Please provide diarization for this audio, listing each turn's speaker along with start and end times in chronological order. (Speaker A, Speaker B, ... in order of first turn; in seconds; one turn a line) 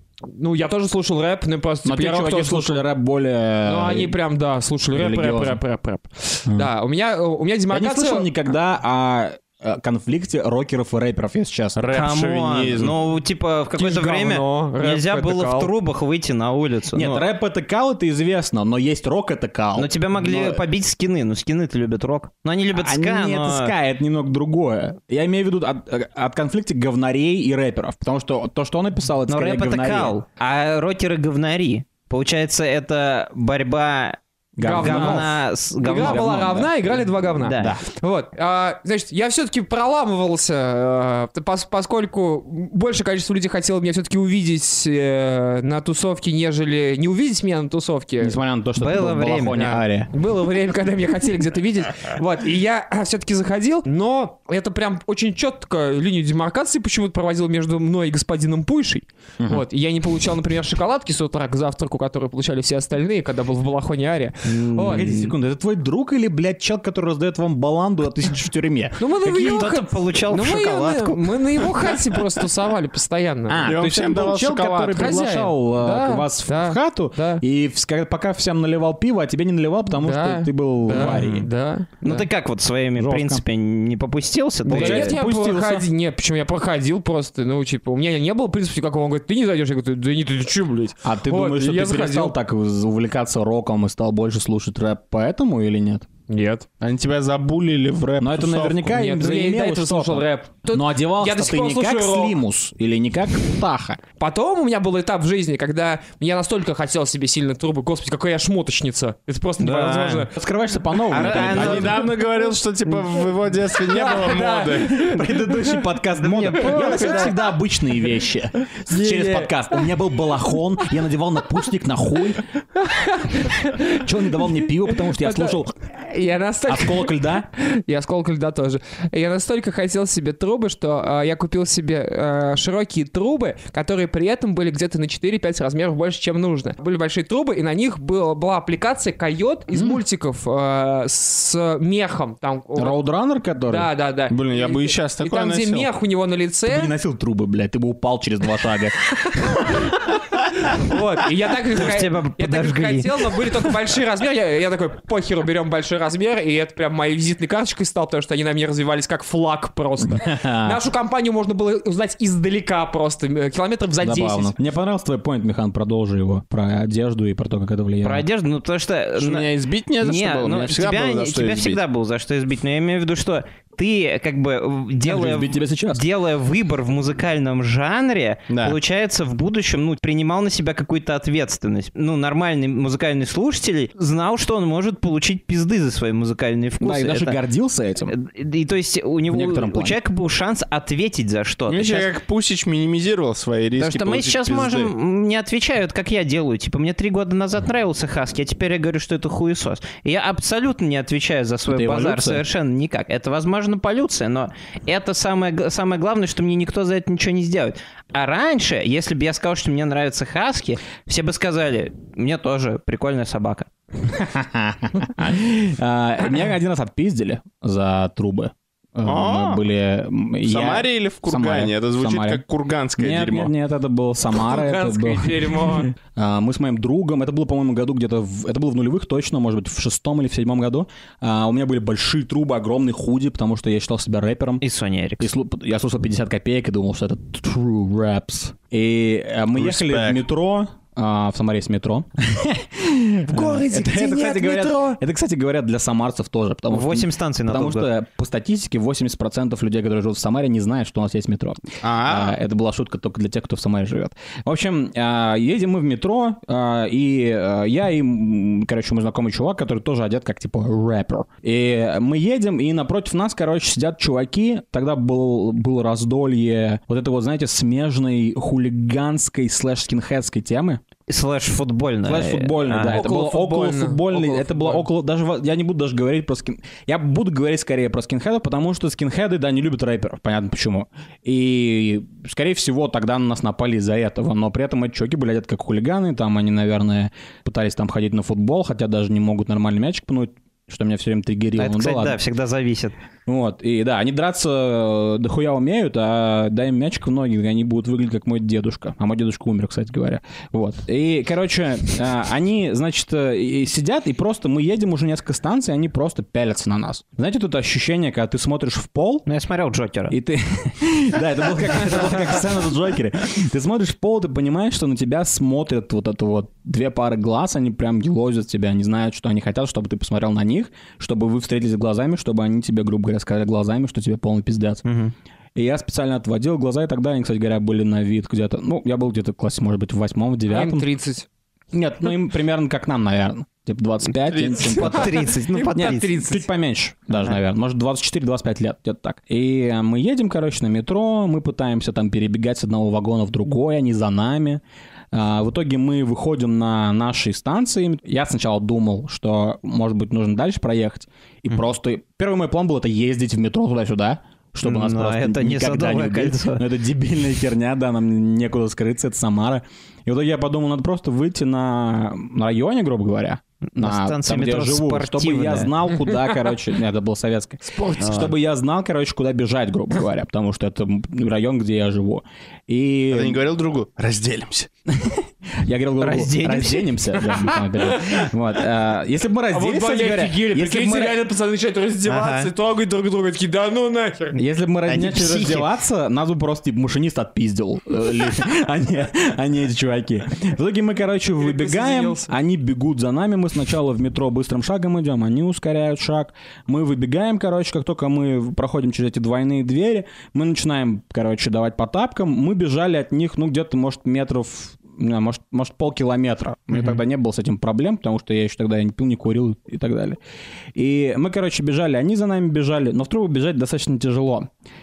Speaker A: 0.3-2.8
Speaker B: 1.8-4.2
Speaker A: 3.6-8.3
Speaker B: 4.9-5.6
Speaker B: 7.7-11.8
Speaker C: 11.7-12.9
Speaker D: 11.9-17.2
Speaker A: 13.8-15.7
Speaker B: 16.9-20.6
Speaker D: 19.8-23.7
Speaker B: 22.7-30.1
Speaker D: 29.3-36.3
Speaker B: 34.6-37.8
Speaker A: 34.6-48.4
Speaker D: 37.4-37.8
Speaker B: 48.2-50.1
Speaker D: 48.8-49.8
Speaker A: 49.6-65.2
Speaker D: 64.4-65.3
Speaker B: 64.8-69.7
Speaker A: 69.0-73.7
Speaker D: 69.3-72.0
Speaker B: 73.5-81.5
Speaker C: 73.6-75.2
Speaker A: 74.9-77.4
Speaker A: 79.9-81.9
Speaker D: 80.9-81.4
Speaker D: 82.0-85.1
Speaker B: 83.0-83.4
Speaker B: 84.7-85.9
Speaker A: 84.7-92.3
Speaker B: 91.0-96.1
Speaker A: 96.3-96.7
Speaker C: 96.8-99.0
Speaker B: 98.2-104.0
Speaker A: 98.8-102.4
Speaker A: 104.2-110.3
Speaker D: 109.6-110.3
Speaker B: 110.3-112.1
Speaker D: 111.1-112.1
Speaker C: 111.1-115.1
Speaker A: 113.9-115.7
Speaker B: 114.1-122.4
Speaker D: 116.2-117.3
Speaker A: 116.7-117.3
Speaker A: 118.9-119.8
Speaker A: 122.7-143.0
Speaker B: 123.4-125.8
Speaker B: 126.7-127.5
Speaker B: 139.7-140.0
Speaker B: 142.8-143.9
Speaker A: 143.7-146.9
Speaker C: 144.3-145.9
Speaker B: 146.7-149.9
Speaker A: 150.6-164.5
Speaker D: 151.7-153.3
Speaker B: 160.0-160.8
Speaker B: 164.0-168.2
Speaker D: 168.0-169.5
Speaker C: 169.2-171.8
Speaker D: 170.0-187.4
Speaker B: 175.0-176.0
Speaker C: 178.5-178.8
Speaker B: 186.8-188.1
Speaker D: 188.1-192.1
Speaker B: 189.3-190.0
Speaker C: 191.7-194.9
Speaker D: 193.8-213.7
Speaker B: 201.7-202.4
Speaker B: 214.0-222.4
Speaker C: 219.1-219.6
Speaker C: 220.4-223.5
Speaker B: 223.0-234.6
Speaker A: 224.4-225.9
Speaker D: 234.6-235.3
Speaker B: 235.2-270.8
Speaker C: 239.5-240.2
Speaker A: 243.3-245.0
Speaker D: 246.7-247.9
Speaker C: 251.8-252.4
Speaker D: 271.1-273.1
Speaker B: 272.0-292.2
Speaker A: 272.8-274.8
Speaker D: 291.6-292.9
Speaker B: 293.2-309.2
Speaker D: 309.2-310.1
Speaker B: 310.1-324.8
Speaker D: 324.8-325.1
Speaker B: 325.5-330.9
Speaker A: 330.5-331.3
Speaker B: 331.7-373.4
Speaker C: 334.3-334.9
Speaker D: 334.6-336.4
Speaker A: 334.8-336.4
Speaker D: 354.6-356.6
Speaker D: 363.7-365.7
Speaker A: 367.7-368.2
Speaker D: 368.0-368.3
Speaker C: 373.1-374.7
Speaker B: 374.9-381.2
Speaker D: 376.0-377.4
Speaker A: 377.8-378.2
Speaker A: 379.5-384.4
Speaker D: 382.0-382.5
Speaker B: 384.3-410.2
Speaker D: 384.9-385.7
Speaker A: 391.4-392.3
Speaker D: 406.7-407.0
Speaker B: 410.7-414.5